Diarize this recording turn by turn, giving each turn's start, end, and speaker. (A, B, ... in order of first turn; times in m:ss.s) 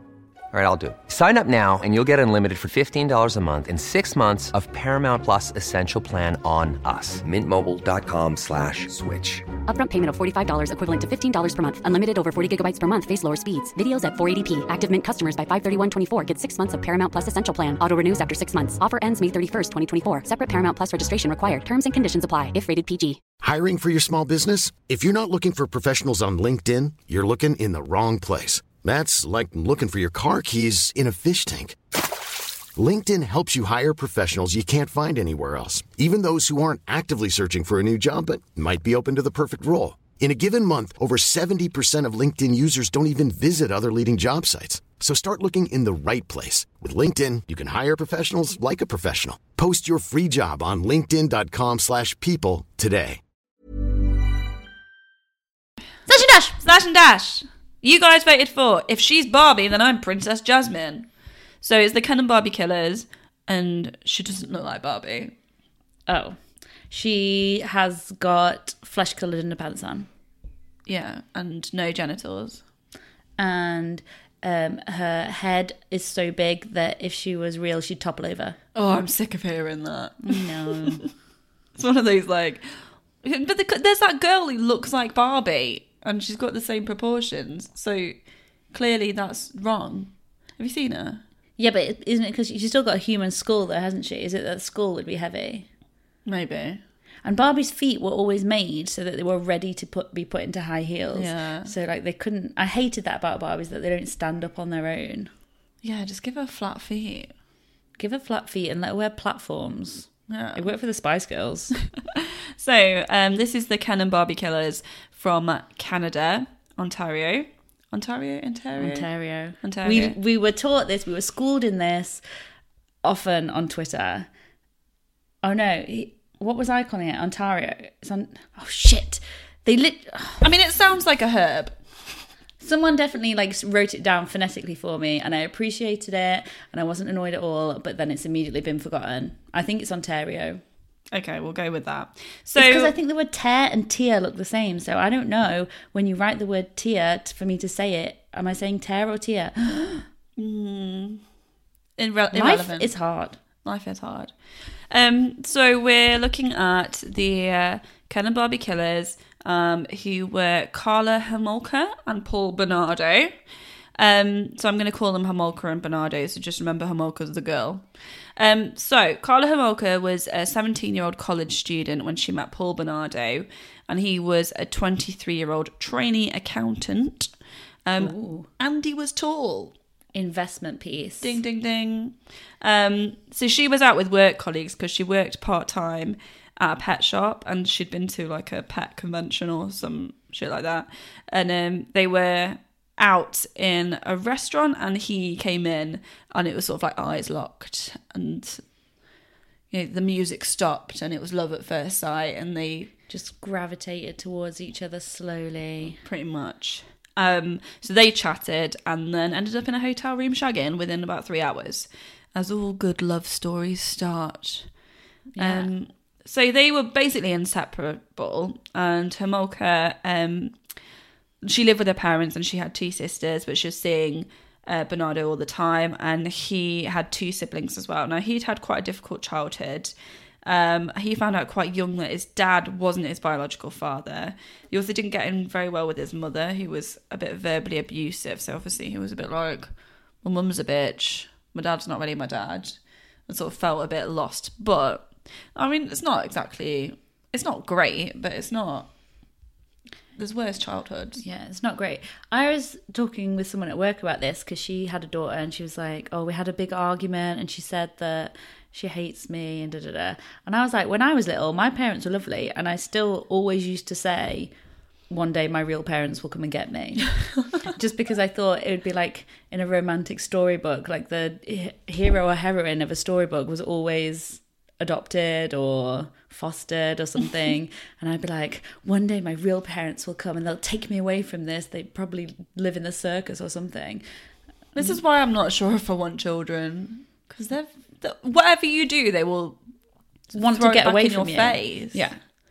0:00.5-0:09.5 A
0:09.7-0:23.2 B
0:23.4-0:31.8 C
0:32.8-0:53.2 C
0:56.1-0:56.6 D
0:56.6-1:01.1 E
1:01.6-1:05.3 E
1:06.1-1:06.4 D
1:06.9-1:10.1 D
1:10.9-1:12.6 E
1:13.4-1:18.6 D
1:18.8-1:21.1 E
1:20.2-1:21.0 D
1:21.8-1:22.7 E
1:23.2-1:28.2 E
1:28.7-1:31.2 E
1:31.6-1:35.7 D
1:36.3-1:36.8 E
1:37.2-1:45.3 D
1:41.1-1:41.7 E
1:45.8-1:47.3 E
1:48.0-1:51.8 D
1:50.3-1:50.7 E
1:52.2-1:59.1 E
1:58.8-2:02.2 D
1:59.6-2:00.2 E
2:03.0-2:04.3 D
2:05.4-2:10.5 D
2:10.4-2:11.8 E
2:12.6-2:20.6 D
2:21.1-2:22.9 E
2:22.6-2:30.0 D
2:30.4-2:31.2 E
2:32.0-2:32.9 E
2:32.3-2:33.4 D
2:33.6-2:34.3 E
2:34.9-2:43.4 E
2:44.0-2:57.3 E
2:57.8-2:59.7 E
2:58.0-2:58.5 D
3:00.1-3:01.4 D
3:01.2-3:18.6 E
3:19.7-3:22.9 E
3:23.1-3:26.0 D
3:26.0-3:34.7 E
3:35.3-3:35.7 D
3:35.4-3:40.6 E
3:41.4-3:49.9 E
3:50.4-4:08.9 E
4:10.2-4:11.2 E
4:11.2-4:24.5 D
4:25.1-4:44.0 D
4:44.8-4:49.6 E
4:50.3-4:52.2 D
4:50.4-4:52.1 E